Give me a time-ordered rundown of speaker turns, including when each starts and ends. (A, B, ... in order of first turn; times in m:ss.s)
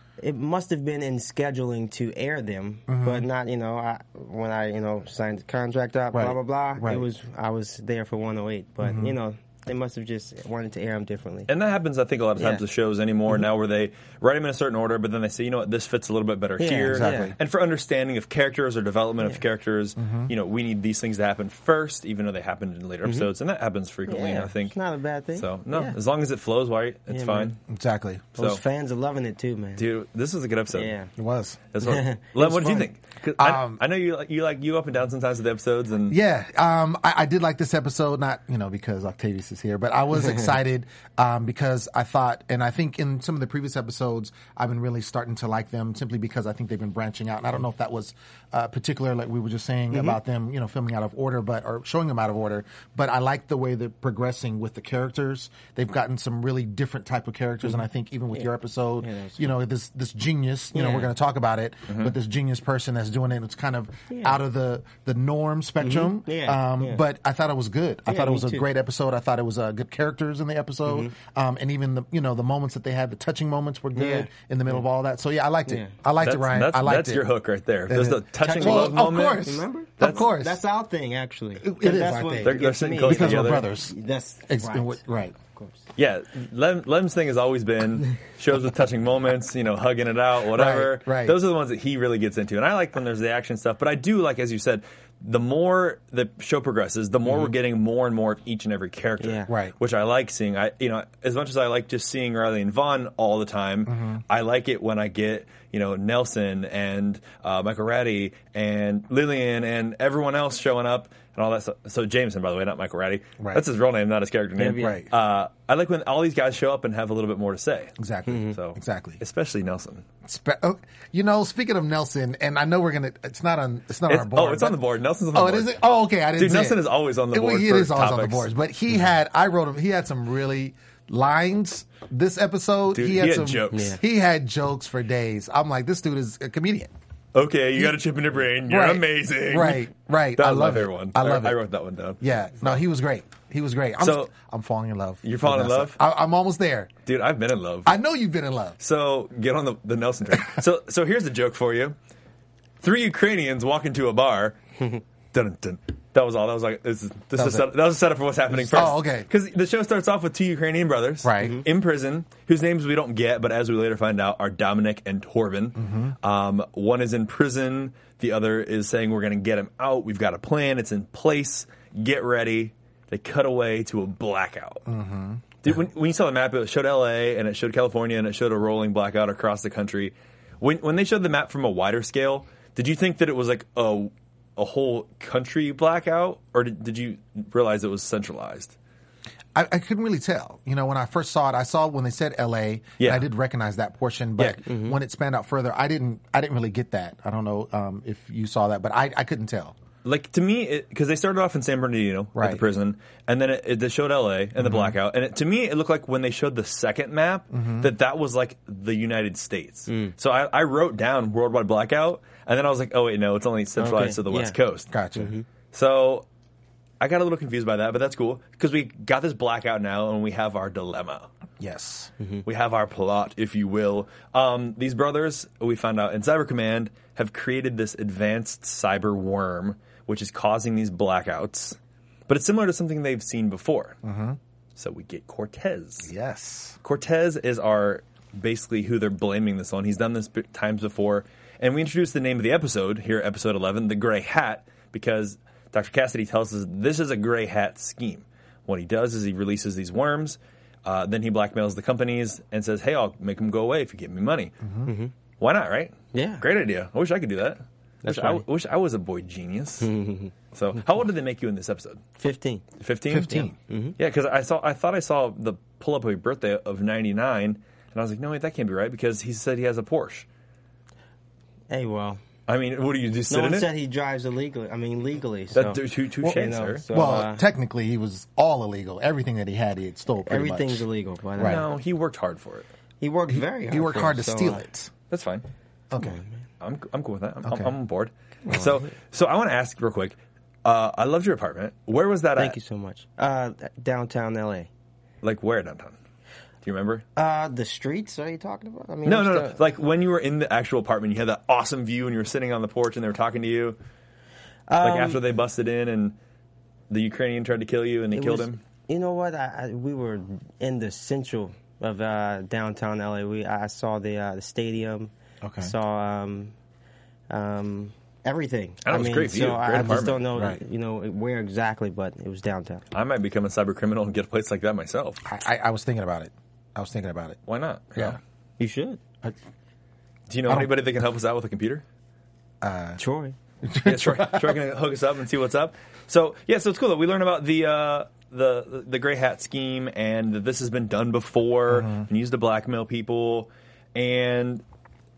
0:00.2-0:11.5 A
0:02.9-0:03.3 B
0:06.1-0:07.1 B
0:08.8-0:09.2 B
0:11.5-0:24.8 C
0:12.4-0:12.6 A
0:16.6-0:17.3 A
0:16.9-0:17.4 B
0:20.0-0:20.3 B
0:24.1-0:26.0 A
0:25.4-0:27.6 C
0:27.1-0:27.6 A
0:27.7-0:28.3 B
0:28.4-0:29.9 A
0:29.8-0:30.9 C
0:30.7-0:31.1 A
0:31.2-0:31.6 B
0:31.7-0:36.2 C
0:31.8-0:32.9 A
0:33.4-0:33.8 B
0:36.1-1:17.3 B
0:40.2-0:40.5 A
0:49.9-0:50.2 A
0:59.0-0:59.5 A
1:00.7-1:01.1 A
1:04.1-1:04.4 A
1:05.8-1:07.0 A
1:08.1-1:08.7 A
1:10.9-1:11.1 A
1:14.0-1:14.8 A
1:15.7-1:15.9 A
1:16.2-1:20.2 C
1:17.9-1:20.6 B
1:18.4-1:25.8 A
1:21.6-1:24.0 B
1:22.4-1:23.7 C
1:24.5-1:25.4 B
1:26.0-1:58.0 C
1:30.5-1:31.4 B
1:39.2-1:39.5 A
1:39.5-1:39.8 B
1:43.9-1:44.2 B
1:54.6-1:55.0 A
1:54.7-1:55.1 B
1:58.0-1:59.2 B
1:58.3-1:58.6 A
1:58.5-2:00.1 C
2:00.2-2:04.8 B
2:04.1-2:05.8 C
2:05.3-2:16.9 B
2:06.4-2:08.5 C
2:12.9-2:14.0 C
2:13.7-2:14.0 A
2:17.3-2:22.7 C
2:18.6-2:21.6 B
2:22.2-2:26.9 B
2:24.0-2:24.3 C
2:25.2-2:26.0 C
2:27.1-2:28.0 C
2:27.9-2:28.8 B
2:28.8-2:32.0 C
2:32.8-2:34.6 C
2:35.3-2:54.9 C
2:37.4-2:37.7 B
2:38.5-2:39.3 B
2:41.2-2:41.6 B
2:41.4-2:41.6 A
2:45.8-2:46.2 B
2:54.9-2:55.4 B
2:55.6-3:08.8 C
3:09.6-3:19.8 B
3:13.0-3:13.3 C
3:14.7-3:15.0 A
3:20.0-3:34.9 C
3:22.4-3:22.6 B
3:24.6-3:25.0 B
3:27.5-3:27.9 B
3:29.9-3:30.1 A
3:33.8-3:34.6 A
3:34.9-3:35.3 B
3:35.2-3:35.5 A
3:35.7-3:36.3 C
3:37.0-3:41.3 C
3:41.6-3:42.1 B
3:42.5-3:51.8 C
3:52.3-3:54.0 C
3:54.0-3:54.4 B
3:54.8-3:56.1 C
3:56.0-3:56.8 B
3:56.8-4:14.6 C
4:14.6-4:14.9 B
4:14.8-4:15.1 A
4:15.4-4:19.9 C
4:16.1-4:16.4 A
4:18.0-4:18.4 A
4:19.8-4:20.3 A
4:20.5-4:22.0 C
4:22.2-4:22.7 A
4:22.8-4:23.5 C
4:23.1-4:23.6 B
4:23.3-4:24.0 A
4:24.0-4:30.3 C
4:31.7-4:32.2 A
4:32.5-4:33.7 C
4:33.3-4:37.4 A
4:35.5-4:36.8 C
4:36.9-4:40.9 B
4:40.2-4:41.6 A
4:41.4-4:41.6 B
4:41.4-4:42.7 C
4:43.0-4:44.6 A
4:43.3-4:44.9 B
4:45.1-4:45.5 C
4:45.9-4:46.2 B
4:46.0-4:46.4 A
4:46.6-4:52.6 C
4:47.4-4:47.7 B
4:48.5-4:48.9 A
4:52.4-4:54.7 A
4:55.2-4:56.0 C
4:56.6-4:57.0 C
4:57.2-4:59.6 A
4:59.0-5:03.8 C
5:04.7-5:05.2 A
5:04.8-5:06.2 C
5:06.9-5:08.6 C
5:08.1-5:16.6 A
5:15.4-5:15.7 B
5:17.3-5:22.8 A
5:18.8-5:20.2 C
5:22.9-5:25.2 C
5:25.3-5:27.4 B
5:27.5-5:28.2 C
5:28.6-5:29.0 A
5:30.3-5:31.8 C
5:32.6-5:33.0 B
5:33.0-5:33.4 A
5:33.6-5:34.6 B
5:33.8-5:44.6 C
5:41.7-5:42.1 B